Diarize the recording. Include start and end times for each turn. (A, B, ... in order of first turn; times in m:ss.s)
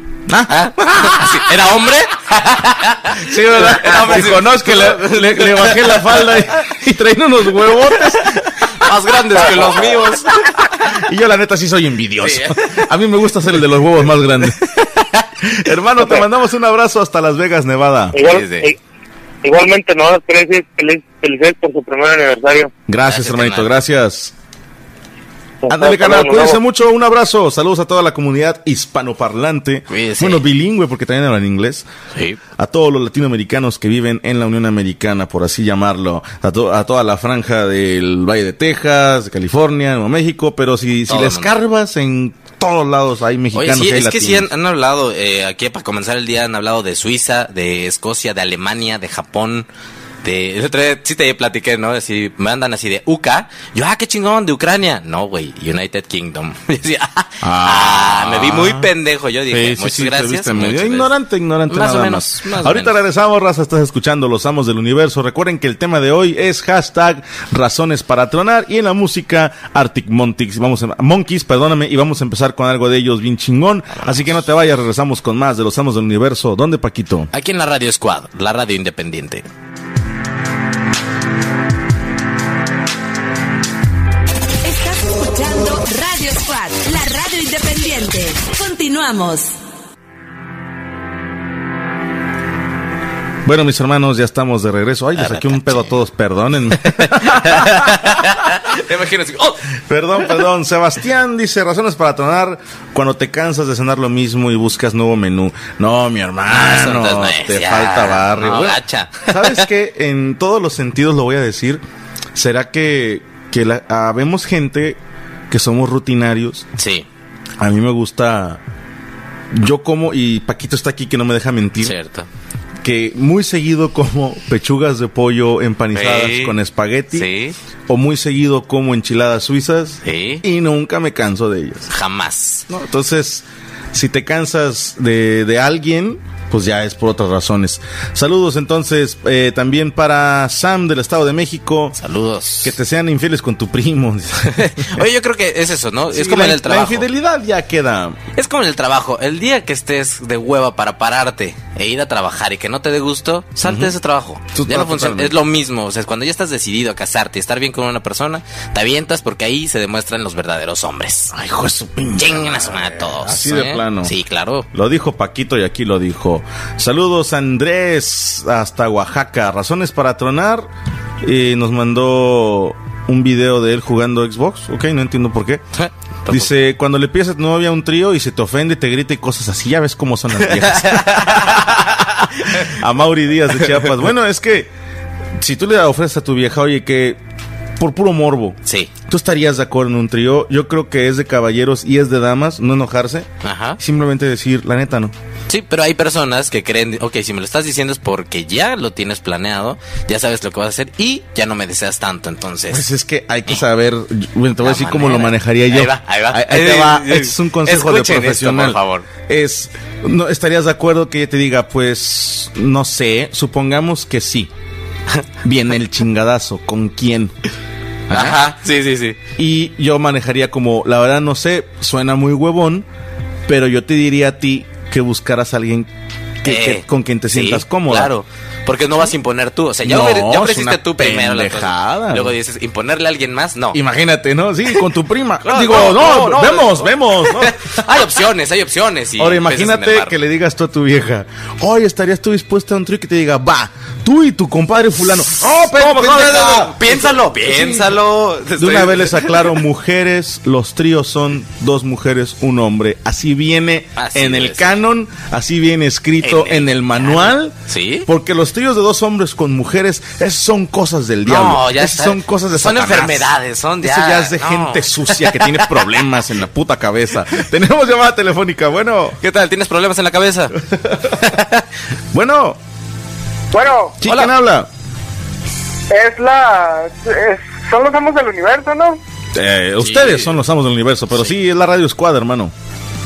0:00.3-0:01.2 A
0:00.5-0:06.4 B
0:03.2-0:08.4 A
0:08.6-0:11.0 B
0:09.3-0:09.9 A
0:09.4-0:09.8 C
0:10.9-0:14.6 A
0:12.2-0:12.9 B
0:14.8-0:15.0 B
0:15.4-0:18.2 A
0:18.1-0:18.8 C
0:18.2-0:18.7 B
0:19.4-0:22.7 C
0:22.9-0:24.3 A
0:23.0-0:23.7 B
0:25.6-0:26.6 C
0:25.7-0:31.8 A
0:29.9-0:30.4 B
0:32.6-0:44.5 A
0:41.1-0:41.5 B
0:43.5-0:49.7 B
0:50.2-1:01.1 B
0:57.4-0:58.9 A
0:59.5-1:17.3 A
1:01.7-1:02.9 B
1:13.9-1:14.3 B
1:17.3-1:19.4 B
1:24.6-1:29.5 D
1:33.4-1:38.1 A
1:35.2-1:35.9 B
1:36.9-1:39.6 B
1:39.9-1:51.8 A
1:46.5-1:49.6 B
1:52.3-1:55.0 A
1:55.5-1:56.7 A
1:56.8-1:57.0 B
1:57.6-1:58.6 A
1:59.5-2:01.9 A
2:01.8-2:02.3 B
2:02.8-2:07.3 A
2:05.9-2:06.5 B
2:07.1-2:07.5 B
2:07.9-2:11.9 A
2:10.0-2:10.4 B
2:11.9-2:12.6 B
2:12.7-2:22.0 A
2:22.0-2:22.7 B
2:22.6-2:25.0 A
2:24.5-2:27.1 B
2:26.1-2:28.2 A
2:28.4-2:41.3 B
2:33.6-2:33.9 A
2:34.5-2:35.4 A
2:41.3-2:44.1 A
2:42.2-2:44.6 B
2:44.7-2:50.7 A
2:51.2-2:55.6 A
2:55.8-2:56.5 B
2:56.3-3:04.7 A
3:00.5-3:02.0 B
3:05.4-3:07.2 A
3:07.8-3:08.6 A
3:08.6-3:08.9 B
3:09.1-3:15.1 A
3:13.4-3:13.8 B
3:15.5-3:22.8 B
3:22.7-3:34.5 A
3:24.6-3:29.1 B
3:35.4-3:37.3 A
3:38.1-3:38.4 A
3:38.1-3:39.2 B
3:39.4-3:42.8 A
3:43.5-3:45.9 A
3:46.4-3:48.1 A
3:46.4-3:53.8 B
3:49.8-3:52.3 A
3:53.7-3:57.8 A
3:55.4-4:00.2 B
3:59.2-4:07.9 A
4:05.6-4:09.6 B
4:08.6-4:29.2 A
4:14.0-4:14.8 B
4:16.2-4:18.1 B
4:21.3-4:25.9 B
4:29.2-4:30.6 B
4:30.7-4:31.2 A
4:31.1-4:31.6 B
4:32.1-4:32.6 A
4:33.5-4:34.0 E
4:34.0-4:34.7 A
4:34.0-4:34.3 B
4:35.9-4:39.0 E
4:39.3-4:42.5 A
4:39.8-4:40.3 B